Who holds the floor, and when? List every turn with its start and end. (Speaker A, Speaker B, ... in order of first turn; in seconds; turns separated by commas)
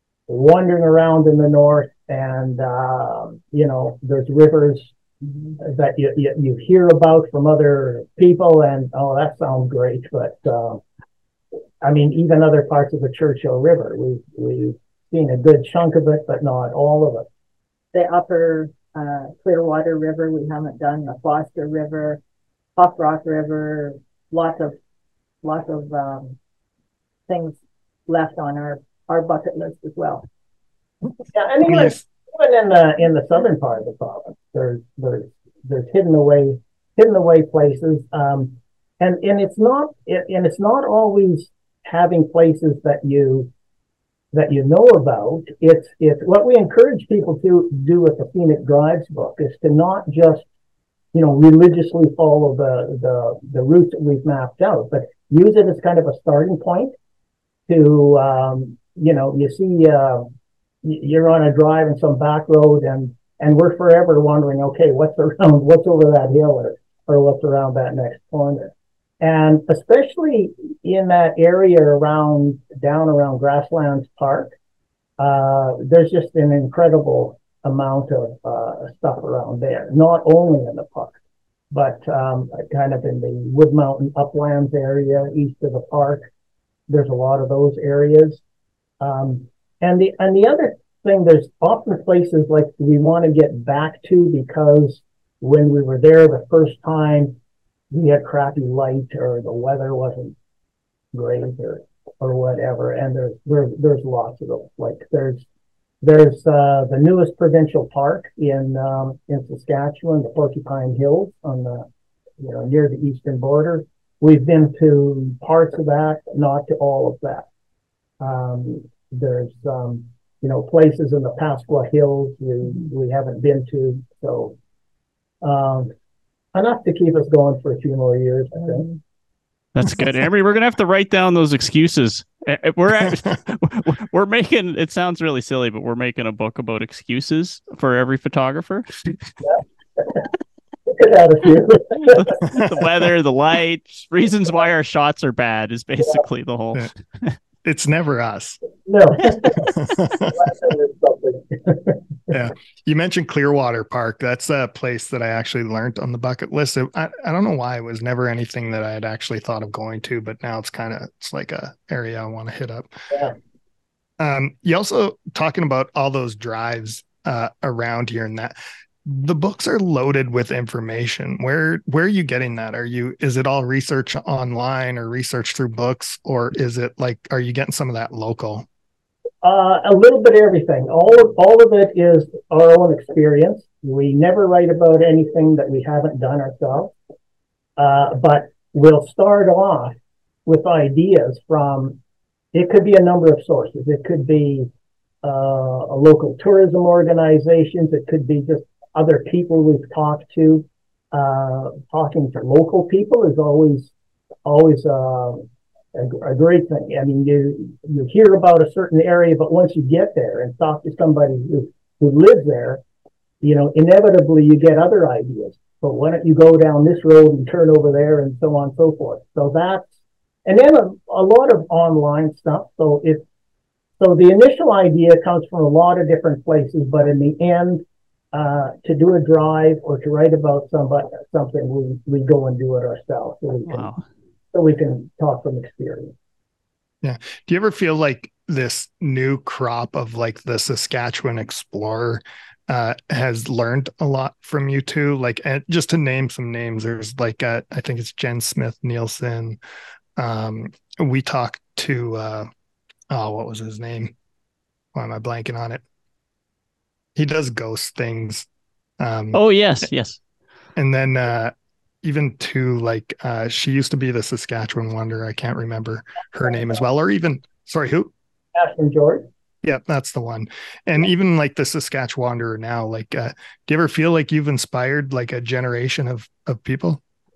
Speaker A: 0.3-4.9, Speaker A: 5.5-10.8, Speaker A: 11.8-17.3, Speaker B: 17.9-22.2, Speaker B: 22.8-24.7, Speaker B: 25.4-26.4, Speaker B: 27.3-30.2, Speaker A: 31.3-43.5, Speaker A: 44.3-50.5, Speaker A: 51.1-56.9, Speaker A: 57.7-60.3, Speaker A: 60.8-74.5, Speaker A: 75.2-81.2, Speaker A: 81.7-86.2, Speaker A: 86.9-88.4, Speaker A: 89.0-97.4, Speaker A: 97.9-100.3, Speaker A: 101.1-105.5, Speaker A: 106.0-111.9, Speaker A: 112.4-117.5, Speaker A: 118.2-124.6, Speaker A: 125.4-125.9, Speaker A: 126.5-128.9, Speaker C: 129.7-139.3, Speaker A: 139.4-140.2, Speaker A: 140.8-142.4, Speaker C: 142.1-147.3, Speaker D: 142.4-142.9, Speaker D: 147.6-148.6, Speaker A: 148.8-152.0, Speaker D: 149.3-150.5, Speaker D: 152.3-162.9, Speaker D: 164.2-178.7, Speaker A: 179.4-186.9, Speaker A: 187.8-189.9, Speaker A: 190.4-192.0, Speaker A: 192.5-194.7, Speaker A: 195.2-203.9, Speaker A: 204.4-212.8, Speaker A: 213.4-219.8, Speaker A: 220.4-223.2, Speaker A: 224.0-233.9, Speaker C: 233.7-234.0, Speaker A: 234.5-236.1, Speaker D: 237.0-249.6, Speaker D: 250.2-252.5, Speaker D: 253.1-254.1, Speaker D: 254.9-255.8, Speaker D: 257.1-258.5, Speaker D: 259.0-259.4, Speaker C: 259.3-260.2, Speaker D: 260.8-268.1, Speaker A: 268.5-269.3, Speaker D: 269.6-277.0